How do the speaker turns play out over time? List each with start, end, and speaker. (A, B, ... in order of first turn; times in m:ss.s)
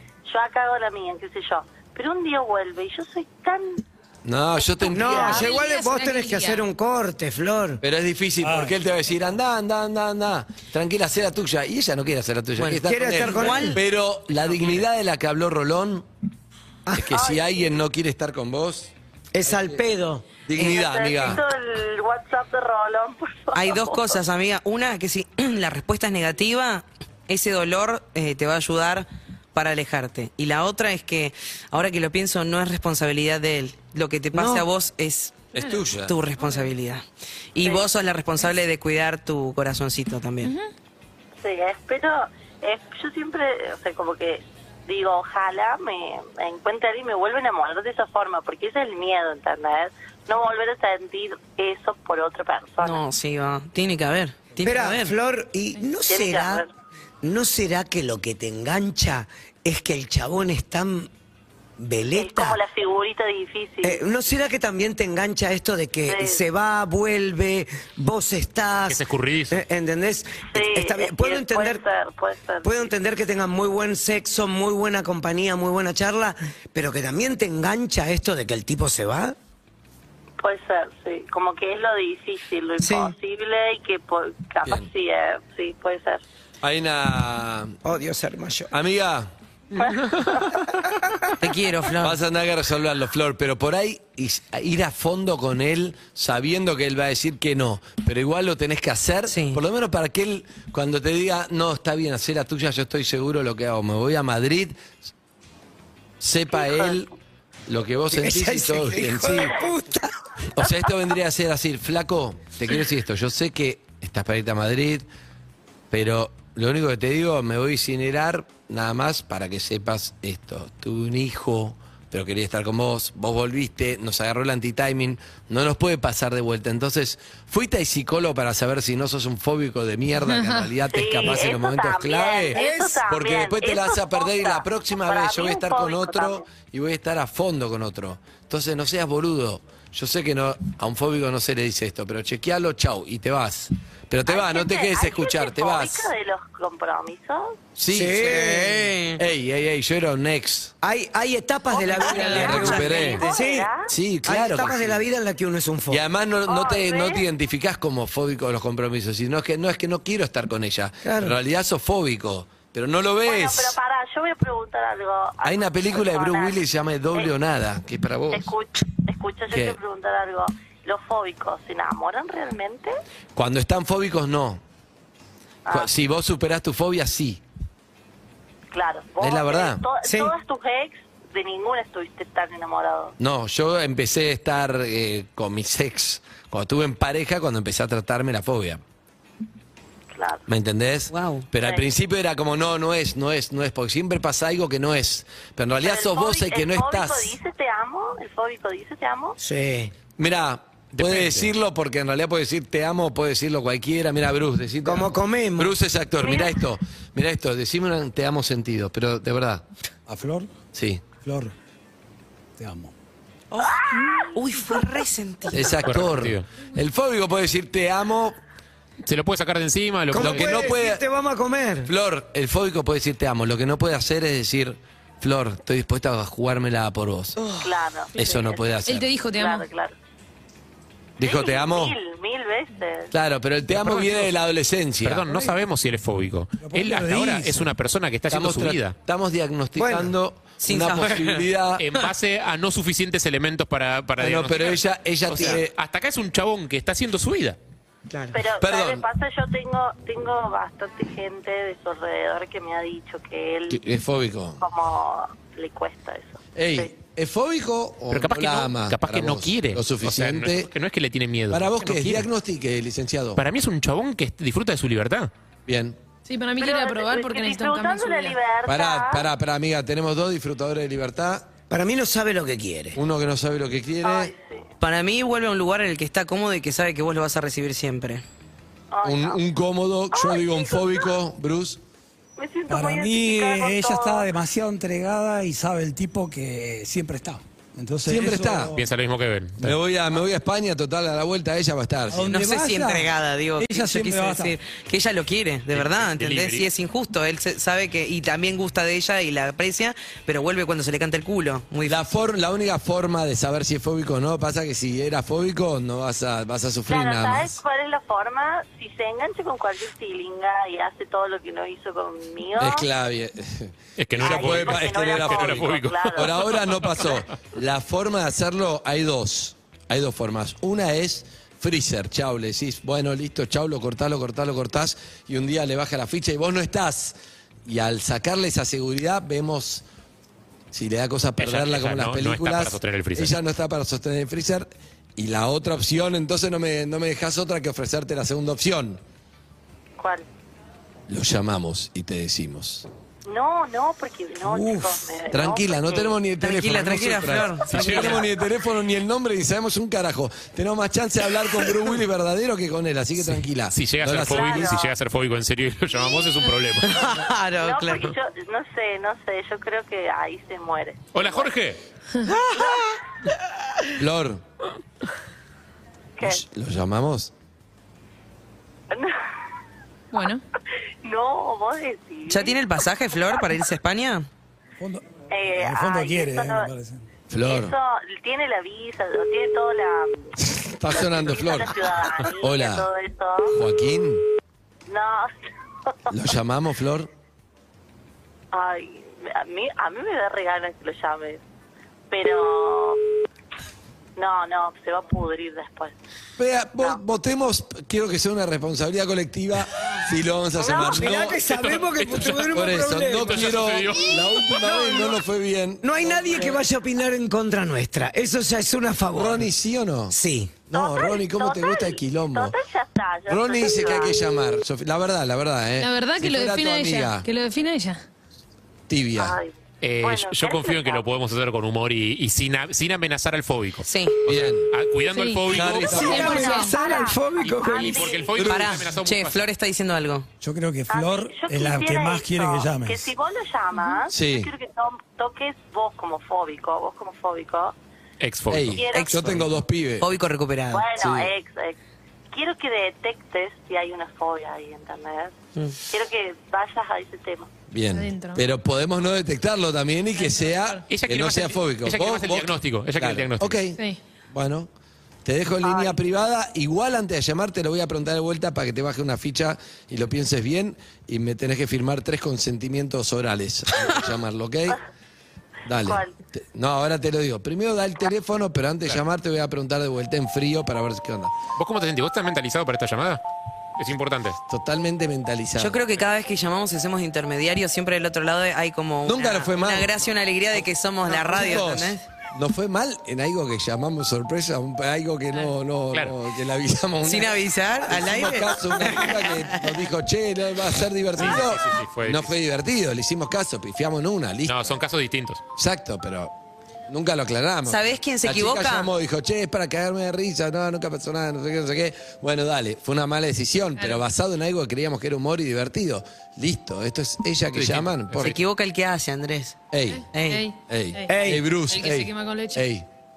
0:00.2-0:03.8 A
0:04.2-0:05.4 B
0:04.9-0:07.8 C
0:05.0-0:05.4 A
0:05.0-0:06.6 D
0:07.8-0:16.1 B
0:08.4-0:08.7 E
0:12.6-0:13.8 F
0:12.8-0:13.8 C
0:16.9-0:17.2 C
0:16.9-0:18.9 B
0:17.1-0:17.4 A
0:19.3-0:20.3 C
0:19.4-0:19.8 B
0:20.4-0:21.4 B
0:20.6-0:24.2 A
0:23.5-0:37.0 F
0:34.3-0:34.6 C
0:35.5-0:36.2 B
0:35.6-0:35.8 D
0:36.4-0:36.7 D
0:37.5-0:40.5 F
0:37.6-0:37.9 A
0:40.4-0:40.7 D
0:41.4-0:53.0 A
0:52.8-0:55.1 F
0:54.6-0:56.6 C
0:56.1-0:56.7 A
0:57.2-1:01.1 C
1:01.8-1:02.6 C
1:02.1-1:04.0 A
1:03.8-1:09.0 C
1:06.1-1:06.4 A
1:08.8-1:09.6 G
1:09.5-1:11.8 C
1:10.5-1:12.9 A
1:12.6-1:19.4 C
1:20.4-1:26.2 A
1:26.6-1:27.8 B
1:27.8-1:28.7 C
1:28.7-1:29.3 B
1:31.4-1:32.2 F
1:32.0-1:44.9 B
1:39.3-1:39.6 F
1:46.2-1:47.1 B
1:46.6-1:46.9 A
1:47.7-1:49.6 B
1:48.1-1:50.1 C
1:50.5-1:55.1 B
1:55.9-2:26.1 B
2:10.2-2:10.7 D
2:10.9-2:16.4 A
2:24.2-2:27.6 A
2:27.8-2:28.4 B
2:27.9-2:28.9 C
2:28.1-2:29.2 F
2:29.2-2:30.7 B
2:30.8-2:33.7 C
2:31.8-2:33.9 A
2:31.8-2:33.4 F
2:32.2-2:33.3 B
2:33.9-2:35.0 B
2:34.2-2:36.0 C
2:35.9-2:43.8 B
2:36.5-2:37.2 A
2:41.0-2:41.4 C
2:43.2-2:46.6 A
2:45.4-2:48.5 B
2:48.3-2:52.9 A
2:49.5-2:49.8 B
2:53.3-2:54.6 B
2:55.6-2:55.9 A
2:55.7-2:57.4 B
2:58.7-3:03.1 A
2:59.2-2:59.8 B
3:00.0-3:00.3 C
3:03.2-3:08.8 B
3:10.1-3:10.4 A
3:10.5-3:17.4 B
3:11.1-3:11.5 F
3:15.8-3:19.4 A
3:19.4-3:19.9 C
3:20.2-3:29.6 B
3:21.0-3:21.5 G
3:24.8-3:25.7 C
3:26.2-3:26.5 A
3:30.1-3:30.5 E
3:30.7-3:31.0 B
3:31.2-3:31.5 E
3:32.6-3:32.9 E
3:33.5-3:35.8 F
3:33.7-3:34.3 A
3:35.5-3:38.4 B
3:35.8-3:36.4 G
3:39.0-3:40.7 G
3:40.1-3:41.9 C
3:40.2-3:41.0 B
3:41.8-3:47.4 B
3:47.4-3:47.7 C
3:47.6-3:48.8 A
3:48.1-3:49.1 B
3:48.8-3:49.6 D
3:49.3-3:49.9 A
3:51.2-3:52.0 B
3:51.2-3:53.1 A
3:53.1-3:55.2 B
3:53.8-3:54.2 G
3:55.0-3:59.0 G
3:55.3-3:55.5 E
3:56.6-3:57.7 E
3:58.3-4:01.8 B
3:59.8-4:00.1 C
4:00.6-4:02.0 F
4:01.8-4:07.6 G
4:04.2-4:05.7 B
4:08.1-4:08.3 C
4:08.3-4:13.8 A
4:08.6-4:09.0 B
4:13.7-4:14.6 B
4:14.6-4:16.9 A
4:16.5-4:20.7 B
4:18.1-4:22.3 G
4:21.5-4:23.4 B
4:23.4-4:25.3 G
4:25.6-4:26.0 B
4:26.2-4:28.4 D
4:26.6-4:29.3 A
4:28.6-4:31.5 B
4:31.7-4:33.0 C
4:32.9-4:34.3 B
4:34.0-4:34.7 A
4:34.8-4:38.2 F
4:38.9-4:39.4 A
4:39.0-4:41.8 B
4:40.1-4:41.1 A
4:42.4-4:44.3 A
4:42.7-4:48.8 E
4:48.0-4:48.7 B
4:48.8-4:49.8 G
4:49.6-4:52.4 B
4:52.1-4:54.6 E
4:52.3-5:02.0 F
4:55.7-4:56.7 G
5:01.8-5:07.6 B
5:06.9-5:12.9 A
5:12.6-5:29.8 B
5:14.0-5:17.2 G
5:14.2-5:16.3 A
5:30.7-5:39.0 B
5:31.4-5:33.3 G
5:40.0-5:40.2 A
5:41.1-5:42.9 B
5:43.3-5:46.2 A
5:45.3-5:54.8 B
5:46.4-5:48.2 F
5:47.7-5:48.2 G
5:53.7-5:57.0 G
5:54.2-5:54.9 A
5:56.8-5:58.1 F
5:57.6-6:01.5 A
6:01.1-6:01.8 G
6:02.2-6:03.0 F
6:04.0-6:04.4 B
6:06.2-6:06.4 A
6:06.2-6:07.3 B
6:08.9-6:09.2 A
6:10.1-6:10.4 D
6:11.0-6:13.4 A
6:12.3-6:14.3 F
6:14.8-6:17.0 E
6:15.3-6:16.7 A
6:17.3-6:17.7 B
6:17.4-6:20.3 A
6:20.4-6:22.9 B
6:20.9-6:23.6 A
6:23.5-6:24.2 B
6:24.9-6:25.3 A
6:26.1-6:27.1 B
6:28.5-6:31.4 A
6:32.1-6:33.0 A
6:34.2-6:35.9 A
6:36.4-6:41.4 B
6:40.6-6:41.2 A
6:40.8-6:45.2 C
6:41.4-6:44.5 G
6:42.4-6:46.6 B
6:45.8-6:49.4 C
6:49.1-6:50.2 B
6:50.1-6:50.6 C
6:50.7-6:52.5 B
6:50.7-6:54.3 A
6:53.3-6:57.3 B
6:55.8-6:58.0 D
6:58.9-6:59.4 B
6:59.2-7:01.0 A
6:59.8-7:06.2 G
7:03.8-7:04.2 F
7:04.2-7:04.7 B
7:05.1-7:06.8 D
7:05.5-7:06.5 B
7:05.7-7:08.4 A
7:05.8-7:08.2 C
7:07.4-7:09.4 G
7:08.3-7:08.8 B
7:08.4-7:10.3 F
7:10.4-7:13.1 E
7:10.9-7:17.7 A
7:13.7-7:14.0 D
7:14.1-7:14.5 B
7:18.2-7:18.8 G
7:18.5-7:20.1 B
7:18.7-7:19.4 A
7:18.9-7:19.5 F
7:20.0-7:20.9 F
7:20.7-7:21.8 A
7:21.0-7:21.3 B
7:22.3-7:27.5 A
7:27.7-7:34.7 B
7:27.9-7:28.4 D
7:30.2-7:30.8 D
7:30.9-7:33.6 G
7:35.2-7:44.8 B
7:35.6-7:36.0 A
7:45.6-7:51.3 B
7:45.8-7:46.1 A
7:51.6-7:53.2 G
7:53.8-7:54.4 G
7:54.5-7:55.8 B
7:55.6-8:02.0 F
7:59.0-8:14.8 B
8:07.0-8:09.7 F
8:11.2-8:12.3 G
8:14.4-8:15.4 G
8:15.6-8:16.3 B
8:16.9-8:28.3 B
8:17.6-8:18.9 F
8:27.5-8:28.4 G
8:28.2-8:29.6 F
8:29.7-8:30.1 B
8:29.9-8:32.6 D
8:30.1-8:30.4 F
8:30.7-8:32.9 B
8:31.1-8:31.4 C